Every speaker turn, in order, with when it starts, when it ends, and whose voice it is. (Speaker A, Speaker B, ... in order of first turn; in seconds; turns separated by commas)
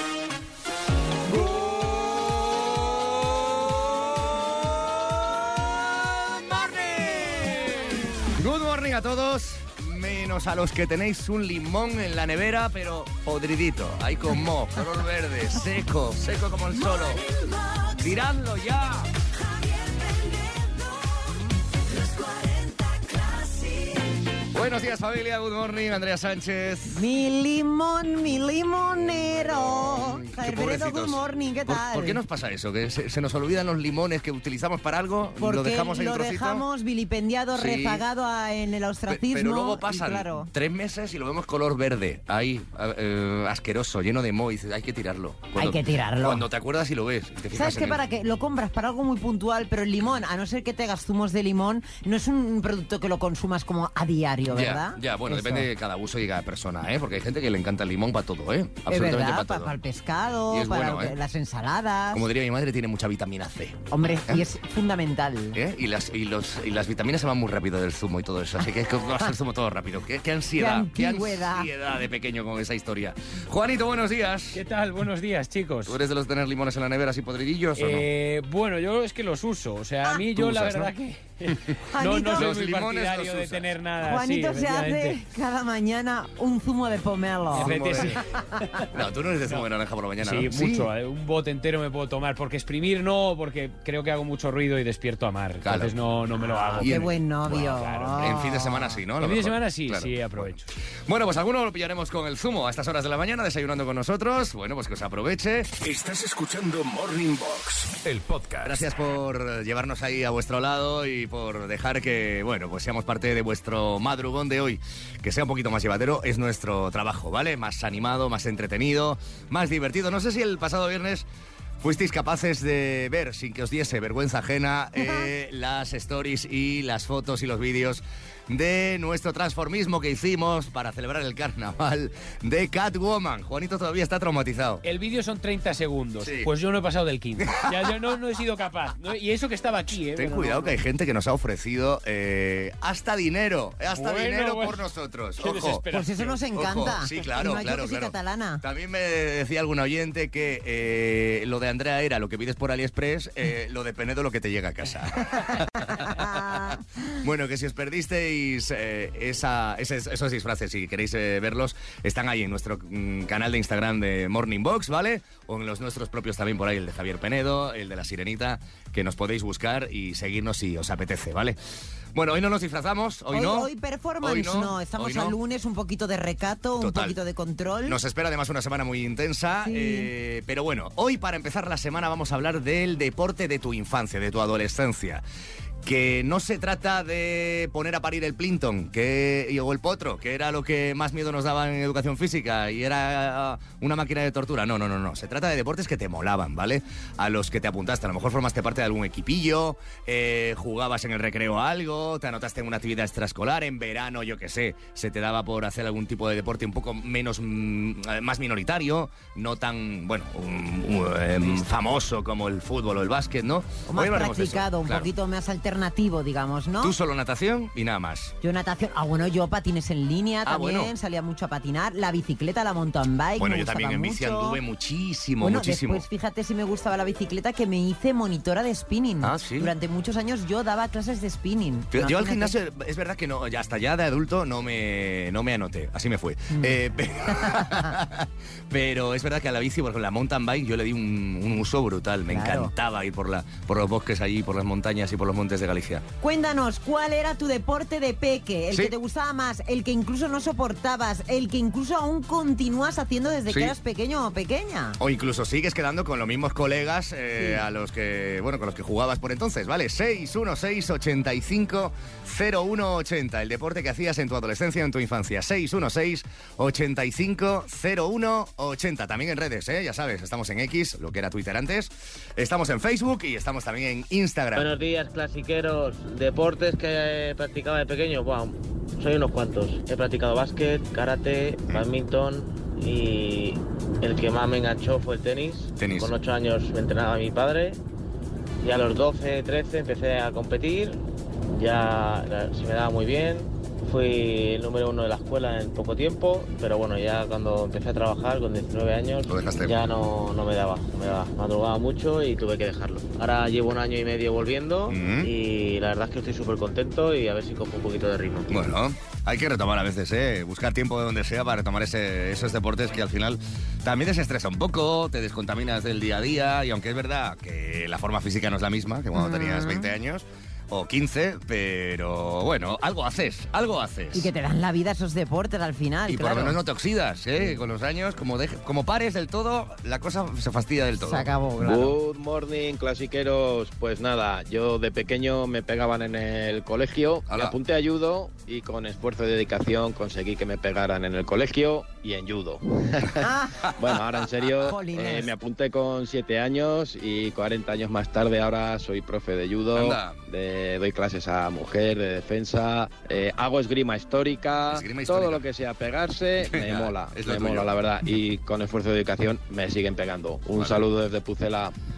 Speaker A: 1.3-17.2, Speaker B: 17.3-17.8, Speaker A: 18.0-19.1, Speaker A: 24.5-27.1, Speaker B: 26.9-32.2, Speaker A: 29.0-36.6, Speaker B: 35.4-40.5, Speaker A: 37.5-38.0, Speaker A: 39.1-48.0, Speaker B: 45.6-46.5, Speaker B: 47.5-55.7, Speaker A: 54.5-59.8, Speaker B: 58.9-62.2, Speaker A: 60.5-61.1, Speaker A: 62.1-64.4, Speaker B: 63.9-65.6, Speaker A: 65.5-74.6, Speaker B: 70.5-71.7, Speaker C: 74.5-76.0, Speaker A: 75.8-78.1, Speaker C: 77.8-85.2, Speaker A: 80.3-80.9, Speaker B: 81.9-82.5, Speaker A: 82.3-83.7, Speaker B: 84.0-88.8, Speaker A: 87.5-88.2, Speaker C: 87.5-88.2, Speaker A: 88.9-90.9, Speaker C: 90.2-97.1, Speaker A: 95.6-95.9, Speaker B: 96.8-98.9, Speaker A: 96.8-100.5, Speaker C: 97.6-98.4, Speaker C: 99.2-100.7, Speaker A: 101.1-105.7, Speaker D: 105.8-108.9, Speaker A: 108.6-121.2, Speaker A: 121.8-134.8, Speaker B: 125.0-125.3, Speaker C: 134.8-140.5, Speaker A: 136.2-136.5, Speaker A: 137.4-137.9, Speaker A: 140.2-145.8, Speaker B: 140.3-140.7, Speaker C: 143.9-144.8, Speaker C: 145.4-146.4, Speaker B: 145.9-148.6, Speaker A: 146.5-171.6, Speaker B: 155.5-157.1, Speaker A: 172.1-173.7, Speaker B: 173.3-178.0, Speaker A: 174.2-175.4, Speaker A: 176.8-177.2, Speaker A: 177.8-185.2, Speaker B: 179.6-180.1, Speaker A: 185.8-215.1, Speaker B: 213.9-216.9, Speaker A: 216.8-218.3, Speaker B: 218.4-224.6, Speaker A: 220.4-220.9, Speaker A: 223.4-226.0, Speaker B: 225.4-232.5, Speaker A: 229.2-229.7, Speaker A: 231.9-246.0, Speaker B: 237.3-237.9, Speaker B: 242.3-242.7, Speaker B: 246.2-255.0, Speaker A: 253.5-253.7, Speaker A: 255.0-274.7, Speaker E: 274.5-287.8, Speaker A: 285.8-286.1, Speaker E: 288.6-308.6, Speaker A: 299.3-299.8, Speaker A: 304.9-305.3, Speaker A: 308.5-324.3, Speaker B: 319.1-319.9, Speaker B: 324.1-326.6, Speaker A: 326.1-331.3, Speaker B: 331.0-331.9, Speaker F: 331.6-343.2, Speaker A: 337.3-337.6, Speaker B: 343.2-343.7, Speaker F: 343.8-361.7, Speaker B: 344.6-345.3, Speaker A: 349.7-350.2, Speaker A: 354.7-355.4, Speaker A: 356.4-357.7, Speaker A: 360.6-360.8